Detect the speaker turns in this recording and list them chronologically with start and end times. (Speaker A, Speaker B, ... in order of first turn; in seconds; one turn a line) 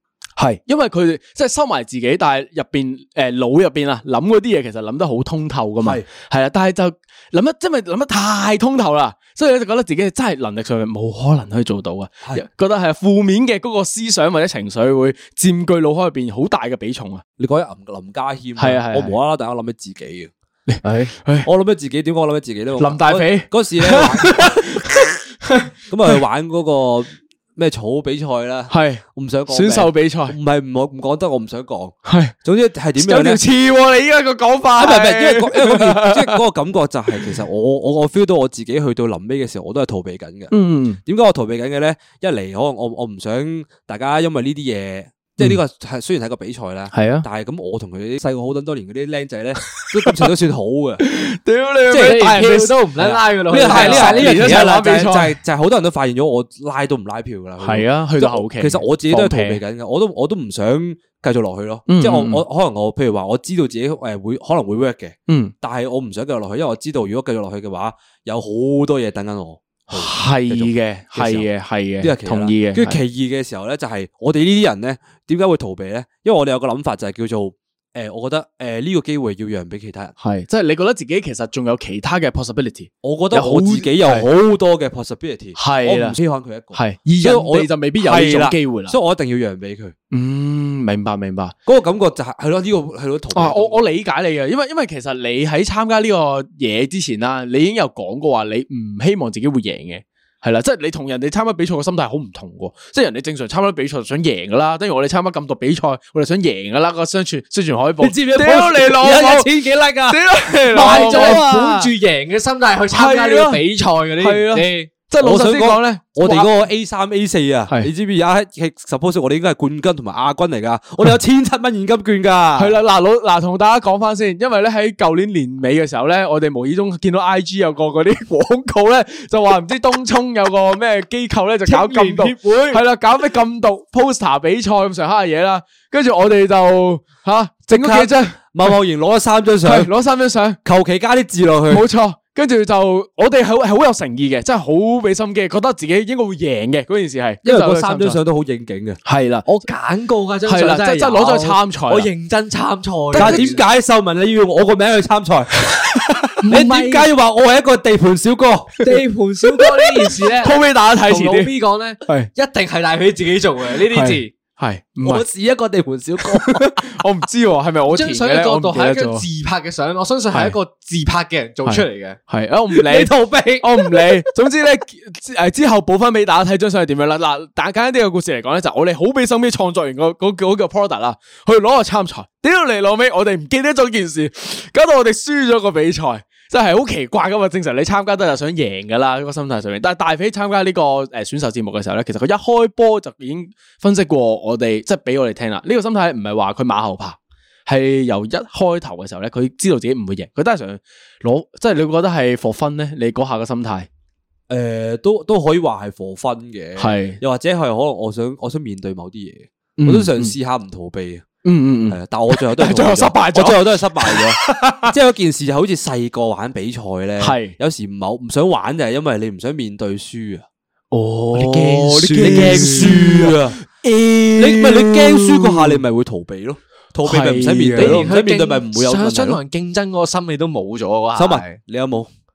Speaker A: 0.4-17.2
Speaker B: 17.4-20.3
Speaker A: 18.6-19.1
Speaker A: 20.7-21.5
Speaker C: 20.8-21.1
Speaker B: 21.4-24.9
Speaker A: 22.8-26.2
Speaker B: 25.9-33.4
Speaker A: 28.7-30.4
Speaker A: 32.0-32.3
Speaker A: 33.0-36.4
Speaker B: 34.8-40.5
Speaker A: 40.5-41.0
Speaker B: 41.0-51.0
Speaker A: 46.9-47.2
Speaker A: 49.8-50.3
Speaker A: 51.0-52.8
Speaker B: 51.9-71.5
Speaker C: 52.0-54.6
Speaker A: 53.5-55.4
Speaker A: 57.6-59.6
Speaker A: 61.9-62.4
Speaker A: 65.3-65.5
Speaker A: 69.9-73.0
Speaker B: 72.0-80.1
Speaker A: 80.2-84.3
Speaker B: 83.0-89.9
Speaker A: 85.5-86.2
Speaker A: 86.7-89.0
Speaker A: 90.1-91.5
Speaker B: 91.7-94.0
Speaker A: 93.3-109.5
Speaker B: 108.0-111.9
Speaker A: 110.0-111.6
Speaker C: 110.7-114.9
Speaker A: 112.9-113.6
Speaker A: 114.2-116.5
Speaker B: 115.2-122.8
Speaker A: 122.6-138.8
Speaker C: 131.6-132.8
Speaker B: 137.7-139.9
Speaker A: 139.6-140.6
Speaker B: 140.6-141.8
Speaker A: 141.7-148.2
Speaker B: 147.4-149.0
Speaker A: 149.0-149.6
Speaker C: 149.4-153.6
Speaker A: 150.4-152.1
Speaker A: 153.1-153.5
Speaker B: 153.2-155.6
Speaker A: 155.7-156.4
Speaker C: 156.4-157.1
Speaker B: 156.5-158.7
Speaker C: 158.8-160.6
Speaker A: 158.8-161.5
Speaker C: 161.1-164.3
Speaker A: 162.0-162.3
Speaker A: 163.9-165.3
Speaker B: 165.0-166.9
Speaker A: 166.2-169.2
Speaker C: 167.9-172.2
Speaker A: 171.6-203.9
Speaker B: 172.8-173.7
Speaker B: 204.5-211.2
Speaker A: 206.8-207.2
Speaker A: 209.8-210.3
Speaker A: 211.4-214.9
Speaker B: 211.9-220.4
Speaker A: 217.2-217.5
Speaker A: 220.9-225.8
Speaker B: 221.3-223.6
Speaker C: 221.9-223.0
Speaker B: 224.4-229.4
Speaker A: 227.0-228.1
Speaker C: 227.8-231.6
Speaker B: 231.2-232.1